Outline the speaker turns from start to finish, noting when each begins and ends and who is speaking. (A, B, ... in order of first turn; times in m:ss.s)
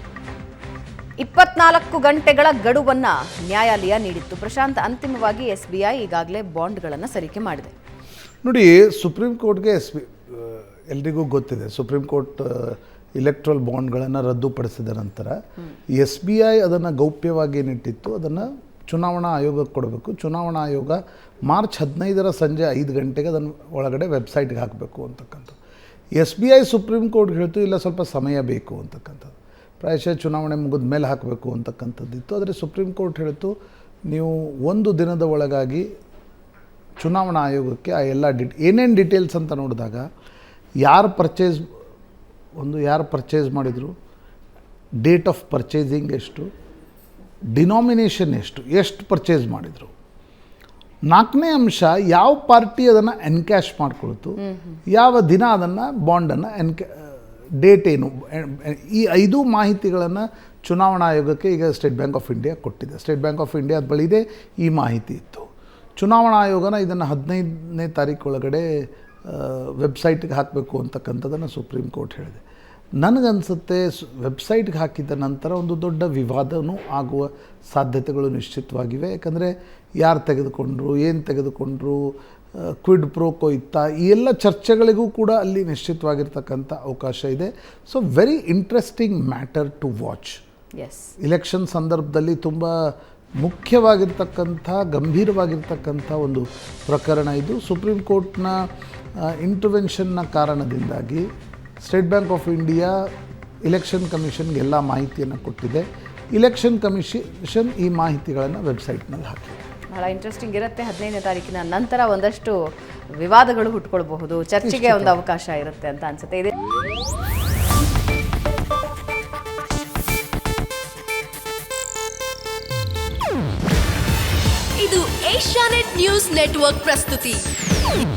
0:01.2-0:07.7 A
0:08.4-0:15.4 B
0:15.9-0:25.6 B
0:26.2-0:33.5 B
0:34.1-0:35.9 B
0:37.0-0:40.0 B
0:40.8-0:41.6 B
0:42.6-0:43.9 B
0:45.0-0:46.5 B
0:47.5-0:49.9 B
0:51.1-1:12.4 B
0:54.5-0:54.8 A
1:13.0-1:30.4 B
1:30.8-1:31.1 A
1:31.2-1:38.7 B
1:39.2-1:41.3 B
1:41.8-1:43.0 B
1:43.6-1:49.6 B
1:49.9-1:52.6 A
1:53.2-1:56.5 A
1:54.6-1:55.2 B
2:04.8-2:07.4 C